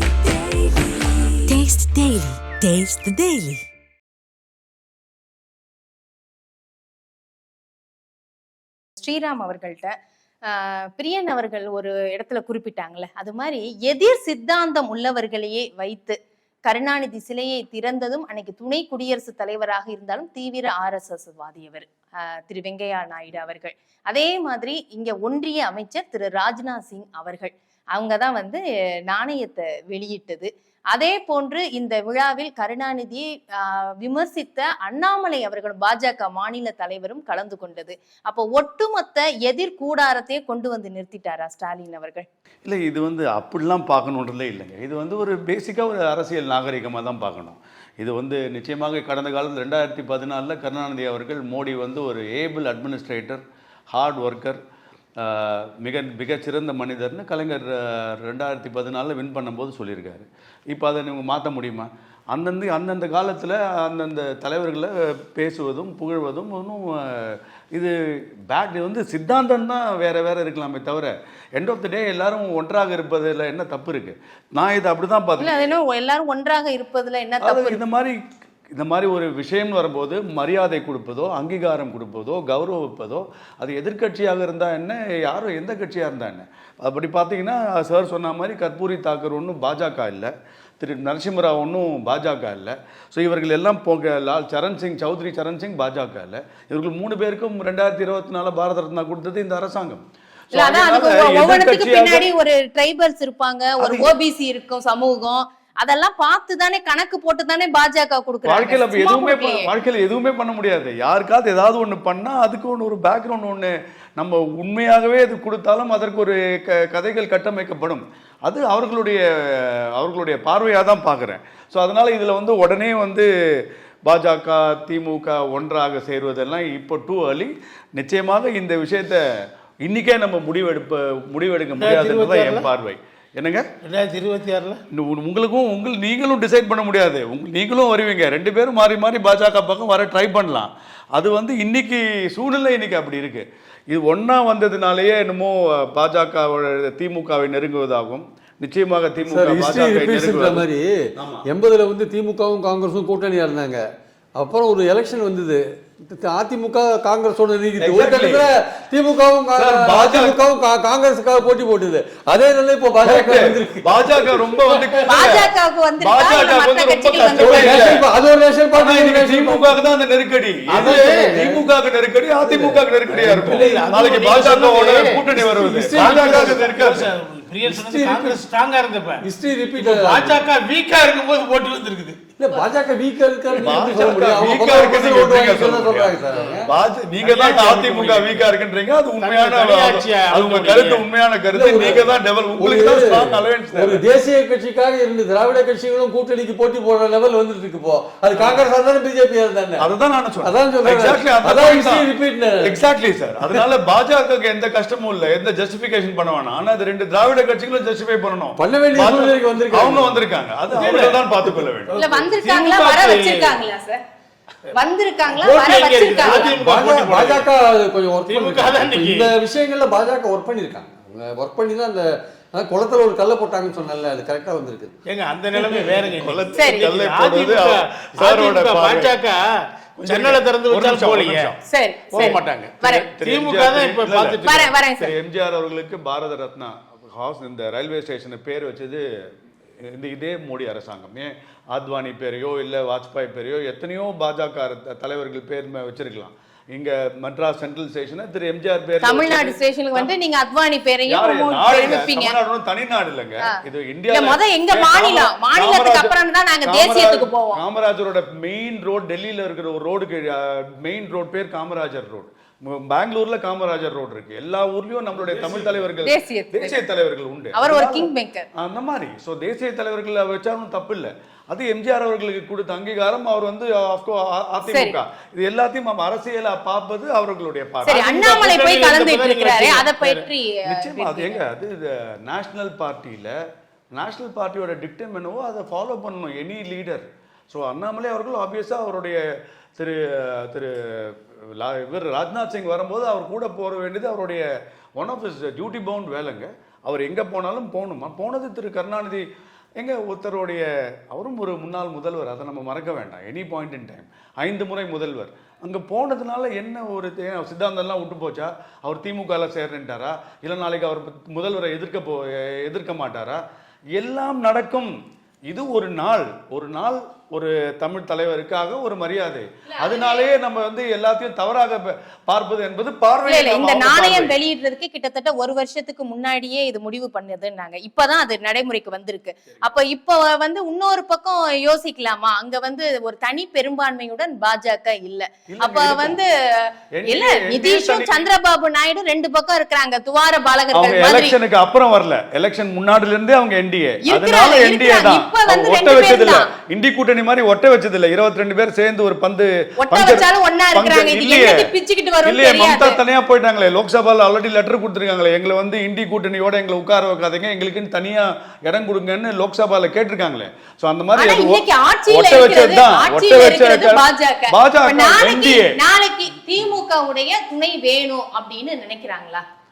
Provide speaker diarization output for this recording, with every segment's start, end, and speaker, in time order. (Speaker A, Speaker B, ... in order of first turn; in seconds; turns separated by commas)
Speaker A: 1.5-3.6, Speaker B: 9.0-42.2, Speaker C: 42.6-54.6, Speaker C: 55.2-67.9, Speaker C: 68.5-75.7, Speaker B: 75.4-77.8, Speaker C: 77.4-78.2, Speaker C: 78.7-102.2, Speaker B: 100.5-109.7, Speaker C: 103.8-104.1, Speaker C: 108.4-123.3, Speaker C: 124.1-129.2, Speaker C: 129.8-133.6, Speaker D: 131.8-132.7, Speaker D: 133.8-134.8, Speaker C: 134.9-150.6, Speaker E: 149.2-150.9, Speaker C: 151.2-151.4, Speaker E: 151.4-153.8, Speaker E: 154.4-164.5, Speaker C: 157.8-158.5, Speaker C: 159.6-160.4, Speaker C: 163.0-168.0, Speaker B: 165.1-167.8, Speaker E: 167.3-169.7, Speaker C: 168.7-177.1, Speaker E: 170.7-171.6, Speaker E: 172.4-173.9, Speaker D: 173.5-175.2, Speaker E: 174.8-176.7, Speaker D: 175.9-179.2, Speaker E: 177.6-178.4, Speaker E: 179.2-180.4, Speaker D: 179.8-182.2, Speaker E: 182.4-186.7, Speaker C: 183.6-194.0, Speaker D: 187.2-188.5, Speaker D: 189.2-191.0, Speaker E: 191.5-199.9, Speaker C: 199.8-202.1, Speaker E: 200.4-202.8, Speaker C: 202.6-211.9, Speaker E: 208.6-212.2, Speaker B: 211.9-214.0, Speaker D: 212.3-213.6, Speaker B: 214.7-216.6, Speaker D: 215.3-217.5, Speaker E: 216.5-224.9, Speaker D: 218.3-219.3, Speaker D: 225.1-231.6, Speaker C: 226.1-229.2, Speaker B: 226.5-226.9, Speaker C: 230.0-231.6, Speaker B: 231.7-233.1, Speaker C: 232.1-232.4, Speaker D: 232.1-234.8, Speaker C: 232.9-239.0, Speaker B: 234.4-235.1, Speaker C: 239.8-250.1, Speaker B: 249.0-252.3, Speaker C: 251.1-278.2, Speaker B: 254.1-257.6, Speaker B: 266.0-266.9, Speaker B: 267.5-268.4, Speaker B: 274.7-275.0, Speaker B: 277.8-281.4, Speaker D: 278.1-280.3, Speaker C: 280.6-283.3, Speaker C: 284.0-289.2, Speaker C: 289.8-294.4, Speaker C: 295.0-299.2, Speaker C: 299.8-313.4, Speaker C: 313.9-314.9, Speaker C: 315.5-324.4, Speaker B: 319.8-320.3, Speaker B: 323.2-336.3, Speaker C: 335.5-336.2, Speaker C: 336.9-338.2, Speaker B: 337.1-341.4, Speaker C: 340.7-351.7, Speaker B: 344.0-346.5, Speaker B: 349.8-353.0, Speaker C: 352.2-365.8, Speaker B: 361.1-369.4